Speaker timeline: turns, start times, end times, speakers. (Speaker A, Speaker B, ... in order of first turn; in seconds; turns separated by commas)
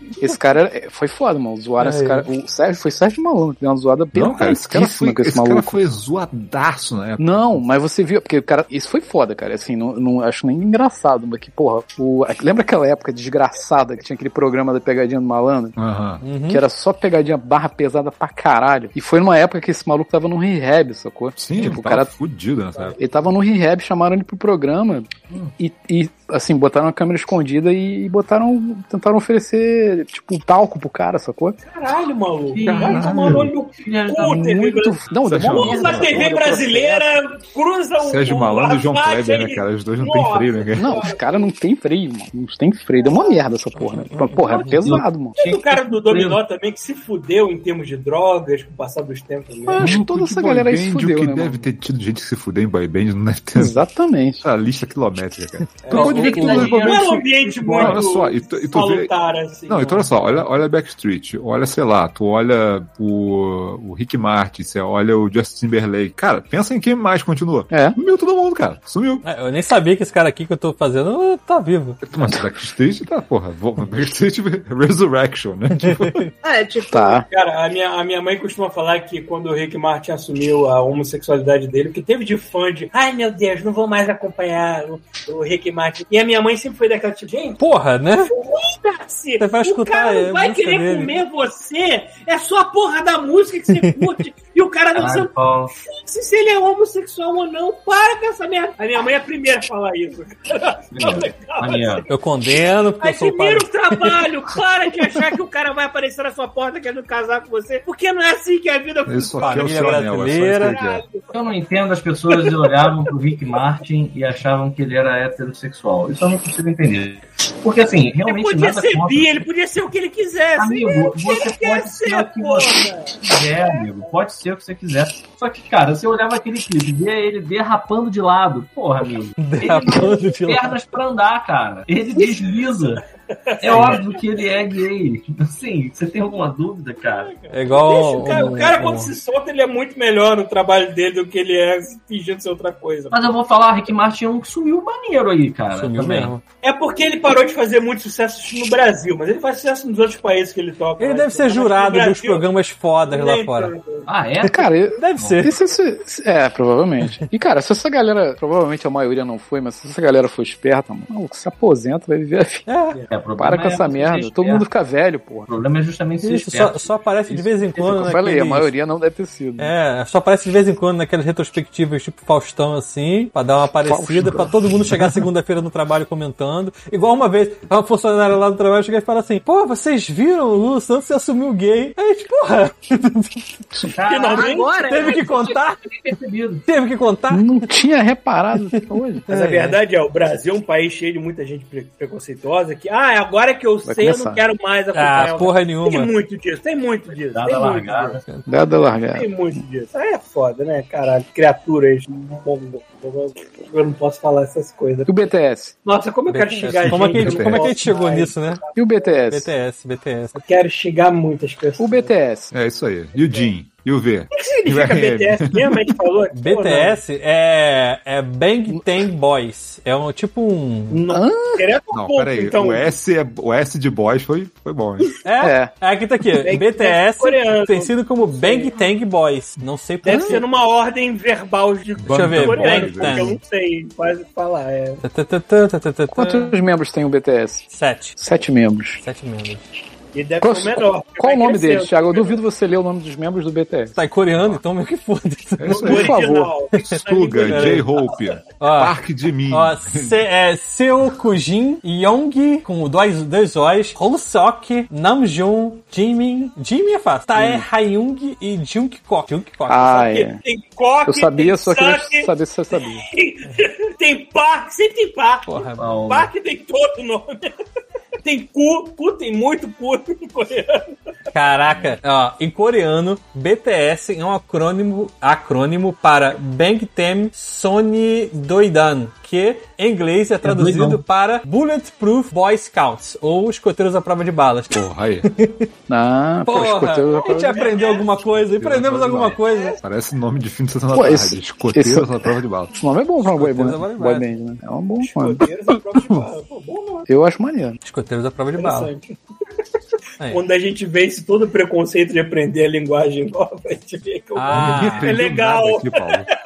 Speaker A: 0.2-5.8, Speaker B: 1.8-2.3, Speaker C: 4.1-7.6, Speaker A: 7.2-15.8, Speaker C: 15.8-16.2, Speaker B: 16.2-16.6, Speaker A: 16.5-22.1, Speaker C: 21.4-23.0, Speaker D: 22.7-23.1, Speaker A: 23.0-31.6, Speaker D: 31.6-41.5, Speaker E: 32.5-34.5, Speaker C: 32.6-33.5, Speaker A: 34.2-37.1, Speaker C: 35.2-36.2, Speaker E: 35.6-36.3, Speaker C: 38.0-41.0, Speaker A: 40.7-45.4, Speaker D: 43.0-43.2, Speaker E: 44.4-46.4, Speaker B: 44.5-44.8, Speaker D: 45.4-49.9, Speaker A: 49.7-51.6, Speaker C: 49.8-53.8, Speaker A: 53.5-54.4, Speaker C: 54.4-57.1, Speaker D: 55.8-60.2, Speaker E: 55.9-58.0, Speaker B: 56.0-56.4, Speaker C: 57.8-59.1, Speaker C: 59.7-69.2, Speaker A: 67.7-68.0, Speaker B: 69.2-72.0, Speaker C: 72.0-76.2, Speaker B: 75.8-76.3, Speaker F: 76.4-77.2, Speaker A: 76.9-77.2, Speaker D: 77.3-87.6, Speaker B: 87.6-88.3, Speaker D: 88.3-102.1, Speaker B: 89.4-91.2, Speaker E: 94.9-95.7, Speaker E: 100.9-102.1, Speaker B: 102.1-104.2, Speaker D: 103.0-111.4, Speaker C: 109.0-111.0, Speaker B: 109.4-110.8, Speaker E: 111.3-119.5, Speaker D: 112.3-113.0, Speaker D: 118.2-123.3, Speaker E: 120.6-133.0, Speaker B: 129.4-130.8, Speaker D: 132.2-134.2, Speaker E: 133.6-137.3, Speaker D: 137.0-143.3, Speaker B: 137.5-139.1, Speaker E: 143.1-146.3, Speaker B: 145.7-146.4, Speaker D: 146.6-152.4, Speaker B: 151.0-153.7, Speaker D: 153.1-154.1, Speaker E: 154.1-155.5, Speaker A: 154.4-162.7, Speaker B: 154.9-155.5, Speaker B: 162.7-163.0, Speaker E: 163.1-164.7, Speaker A: 163.4-165.5, Speaker E: 165.5-168.1, Speaker B: 166.2-168.7, Speaker A: 167.8-169.7, Speaker B: 169.6-183.4, Speaker A: 173.8-174.5, Speaker E: 183.9-185.1, Speaker D: 184.1-184.7, Speaker F: 184.2-185.6, Speaker B: 184.8-185.8, Speaker E: 185.8-186.7, Speaker B: 186.7-187.6, Speaker A: 187.3-189.3, Speaker B: 188.7-189.8, Speaker D: 189.3-198.2, Speaker A: 193.8-194.4, Speaker B: 194.9-196.1, Speaker E: 197.3-198.2, Speaker A: 198.5-199.3, Speaker D: 199.1-205.2, Speaker A: 205.1-205.7, Speaker D: 205.8-209.1, Speaker B: 206.3-208.6, Speaker C: 206.7-207.9, Speaker A: 208.8-209.5, Speaker B: 209.3-210.3, Speaker D: 210.3-212.1, Speaker A: 211.8-212.5, Speaker C: 212.5-215.9, Speaker D: 213.2-213.5, Speaker D: 214.3-217.0, Speaker B: 216.3-221.0, Speaker D: 220.9-222.9, Speaker A: 221.1-221.7, Speaker C: 221.9-225.1, Speaker B: 225.2-230.4, Speaker A: 225.4-225.7, Speaker D: 226.4-228.9, Speaker D: 230.0-235.0, Speaker A: 230.1-230.4, Speaker C: 232.0-233.4, Speaker B: 232.1-233.4, Speaker B: 235.0-236.6, Speaker A: 236.1-237.6, Speaker B: 237.7-238.2, Speaker A: 238.2-239.0, Speaker B: 239.0-239.6, Speaker D: 240.1-242.4, Speaker A: 240.4-244.0, Speaker B: 243.9-246.1, Speaker C: 245.6-246.1, Speaker D: 245.7-248.3, Speaker A: 245.8-246.5, Speaker B: 246.8-247.9, Speaker C: 246.9-250.2, Speaker B: 248.6-248.9, Speaker B: 249.5-260.1, Speaker A: 257.3-257.6, Speaker A: 259.7-260.4, Speaker D: 259.9-262.3, Speaker A: 261.0-263.0, Speaker D: 263.0-267.5, Speaker B: 265.4-265.9, Speaker E: 265.8-266.3, Speaker D: 268.2-270.9, Speaker B: 271.3-285.7, Speaker C: 271.7-272.0, Speaker E: 280.4-281.0, Speaker C: 284.7-285.3, Speaker A: 285.9-287.6, Speaker B: 286.4-289.8, Speaker D: 287.1-288.1, Speaker C: 288.3-292.7, Speaker D: 289.4-289.8, Speaker A: 290.9-295.4, Speaker B: 293.2-294.3, Speaker D: 295.0-297.1, Speaker A: 297.1-297.8, Speaker B: 297.8-298.9, Speaker D: 298.6-299.2, Speaker D: 300.3-306.2, Speaker B: 304.3-305.1, Speaker C: 304.5-306.3